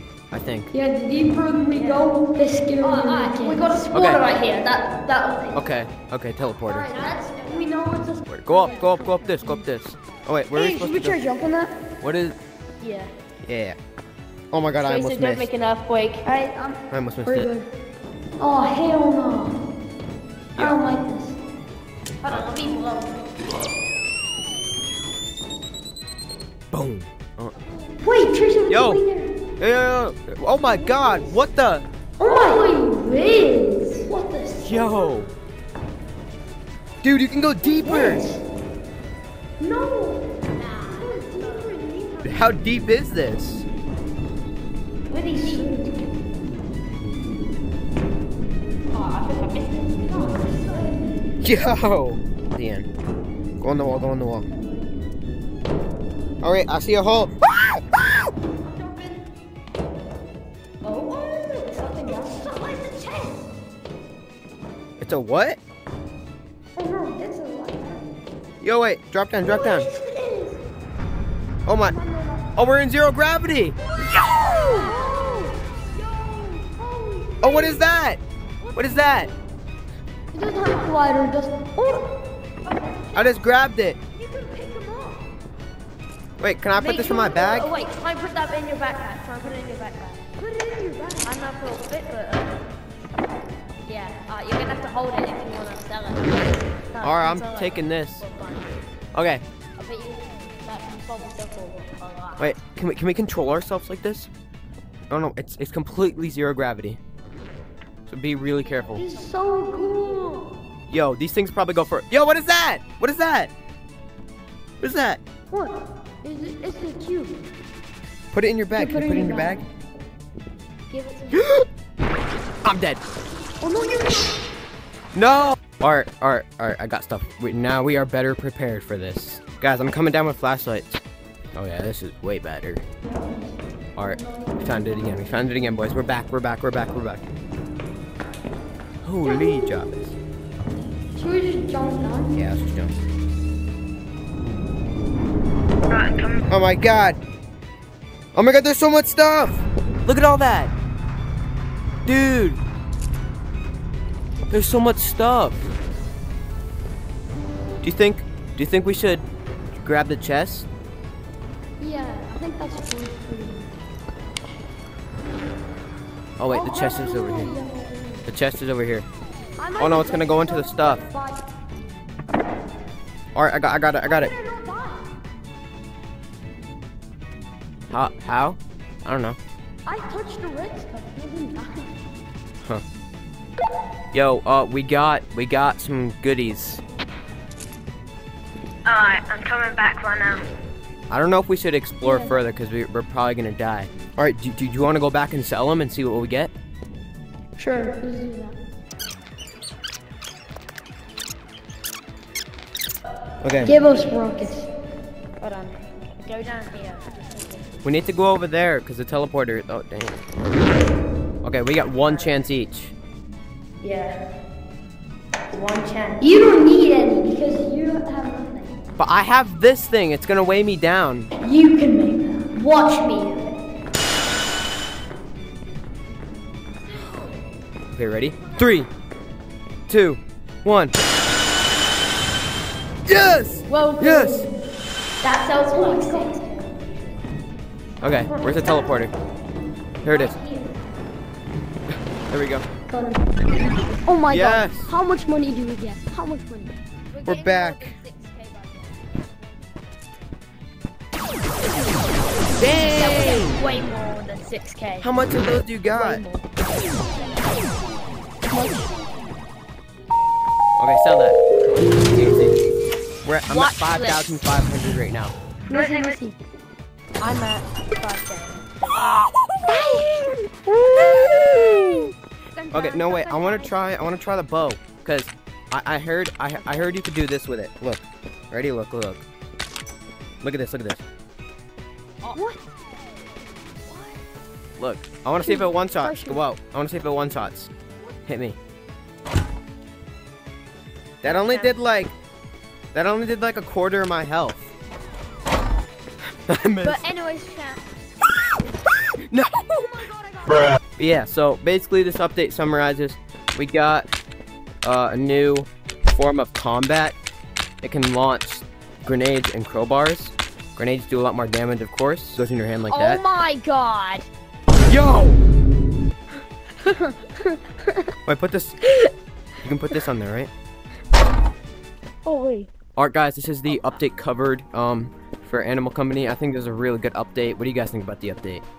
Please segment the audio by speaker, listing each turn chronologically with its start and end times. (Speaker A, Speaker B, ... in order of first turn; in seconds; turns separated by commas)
Speaker A: 0.3-0.7, Speaker B: 0.7-4.2, Speaker C: 1.7-2.1, Speaker C: 2.8-5.6, Speaker A: 3.9-4.2, Speaker A: 5.5-6.9, Speaker B: 6.7-9.6, Speaker C: 6.7-7.7, Speaker A: 8.3-11.2, Speaker C: 8.7-8.9, Speaker B: 10.5-11.7, Speaker A: 12.0-12.4, Speaker C: 12.8-13.1, Speaker A: 13.5-13.8, Speaker A: 14.5-15.5, Speaker C: 14.8-16.3, Speaker B: 16.2-17.7, Speaker A: 16.9-17.5, Speaker B: 18.4-19.6, Speaker A: 20.6-20.8, Speaker B: 20.6-21.4, Speaker C: 22.2-23.2, Speaker A: 26.7-27.6, Speaker C: 27.7-28.0, Speaker B: 28.0-29.3, Speaker A: 28.7-29.0, Speaker A: 29.6-31.9, Speaker C: 30.8-31.3, Speaker B: 32.2-33.0, Speaker C: 32.2-34.1, Speaker B: 34.0-35.1, Speaker A: 34.6-35.3, Speaker A: 37.0-38.2, Speaker B: 37.6-38.4, Speaker B: 39.6-40.2, Speaker C: 40.5-41.7, Speaker B: 41.0-42.5, Speaker A: 42.2-43.7, Speaker C: 45.1-46.0, Speaker C: 48.9-50.5, Speaker B: 50.2-51.0, Speaker A: 51.4-52.9, Speaker A: 53.6-54.5, Speaker B: 53.9-54.9, Speaker A: 56.4-58.3, Speaker B: 58.7-59.1, Speaker C: 60.8-61.1, Speaker B: 60.9-63.4, Speaker C: 61.7-62.4, Speaker A: 65.0-65.6, Speaker B: 66.8-68.1, Speaker A: 68.6-69.9, Speaker B: 69.4-70.6, Speaker A: 71.7-72.0, Speaker B: 71.8-72.5, Speaker A: 72.6-73.8, Speaker B: 74.0-78.0, Speaker A: 77.4-78.2, Speaker B: 78.8-79.1, Speaker A: 78.8-79.3, Speaker B: 80.3-82.1, Speaker B: 82.7-83.3, Speaker A: 83.2-84.0, Speaker B: 84.2-85.2, Speaker A: 86.4-87.7, Speaker C: 86.8-90.2, Speaker B: 90.4-91.3, Speaker C: 91.2-92.6, Speaker C: 93.9-98.8, Speaker A: 97.0-98.2, Speaker A: 99.1-99.4, Speaker C: 99.8-102.5, Speaker A: 102.4-104.3, Speaker A: 105.1-107.0, Speaker A: 108.1-109.1, Speaker C: 108.6-110.1, Speaker B: 109.0-110.5, Speaker A: 110.9-113.5, Speaker A: 114.8-115.2, Speaker B: 115.5-117.4, Speaker A: 118.3-119.6, Speaker B: 118.7-119.6, Speaker B: 120.9-121.4, Speaker A: 121.3-121.7, Speaker A: 122.6-123.0, Speaker B: 123.6-124.3, Speaker A: 125.1-131.0, Speaker A: 131.6-132.8, Speaker B: 133.0-133.5, Speaker A: 134.0-137.3, Speaker B: 134.1-135.3, Speaker A: 139.0-140.2, Speaker B: 139.2-139.8, Speaker B: 141.2-142.4, Speaker A: 142.3-143.0, Speaker C: 145.9-146.4, Speaker A: 146.5-147.2, Speaker A: 148.3-150.7, Speaker A: 152.1-152.6, Speaker A: 154.5-155.6, Speaker A: 157.8-159.2, Speaker A: 159.8-160.7, Speaker B: 161.8-163.7, Speaker A: 166.4-167.6, Speaker B: 166.5-168.3, Speaker A: 168.2-169.1, Speaker B: 169.6-171.4, Speaker A: 169.8-171.0, Speaker A: 173.3-174.3, Speaker B: 174.0-175.1, Speaker A: 177.9-179.4, Speaker B: 179.8-181.9, Speaker A: 184.1-186.8, Speaker C: 188.9-190.5, Speaker A: 191.1-196.5, Speaker B: 192.0-192.3, Speaker B: 197.6-198.6, Speaker A: 203.4-203.8, Speaker B: 203.6-204.7, Speaker C: 203.7-204.6, Speaker C: 205.4-207.8, Speaker A: 207.8-210.2, Speaker A: 211.4-212.9, Speaker C: 212.0-212.5, Speaker C: 213.8-214.2, Speaker C: 215.5-216.2, Speaker B: 216.2-218.8, Speaker A: 219.0-221.3, Speaker B: 221.4-223.3, Speaker C: 222.7-223.3, Speaker A: 227.9-228.9, Speaker A: 229.9-230.9, Speaker A: 233.1-234.5, Speaker B: 233.7-234.5, Speaker C: 235.2-237.2, Speaker B: 235.7-236.3, Speaker A: 238.0-239.1, Speaker C: 238.3-239.0, Speaker A: 240.0-240.4, Speaker C: 240.1-240.7, Speaker A: 242.3-242.7, Speaker B: 242.9-243.3, Speaker B: 244.1-246.8, Speaker A: 244.3-244.9, Speaker C: 247.1-250.2, Speaker A: 247.2-248.0, Speaker A: 252.5-253.6, Speaker C: 252.6-255.1, Speaker A: 255.0-256.2, Speaker C: 256.0-256.4, Speaker B: 258.5-258.9, Speaker A: 260.8-261.4, Speaker A: 262.1-262.6, Speaker A: 263.2-265.3, Speaker C: 263.5-264.4, Speaker B: 265.7-266.4, Speaker C: 265.7-266.2, Speaker C: 267.2-269.1, Speaker B: 269.6-272.1, Speaker C: 272.6-273.8, Speaker A: 272.7-279.2, Speaker C: 276.6-276.9, Speaker A: 280.4-281.0, Speaker B: 282.3-282.6, Speaker C: 283.9-284.1, Speaker A: 284.8-287.7, Speaker B: 285.4-286.4, Speaker A: 288.3-288.6, Speaker A: 291.2-292.1, Speaker C: 291.2-291.9, Speaker A: 292.9-294.7, Speaker A: 296.5-297.1, Speaker C: 296.8-297.8, Speaker A: 299.3-300.0, Speaker B: 299.8-300.8, Speaker A: 301.0-304.1, Speaker A: 304.8-307.2, Speaker A: 307.8-313.2, Speaker C: 312.9-314.3, Speaker A: 314.9-315.4, Speaker B: 316.8-317.9, Speaker A: 318.3-318.8, Speaker A: 319.6-320.5, Speaker B: 322.2-322.7, Speaker A: 323.0-328.6, Speaker C: 323.7-324.0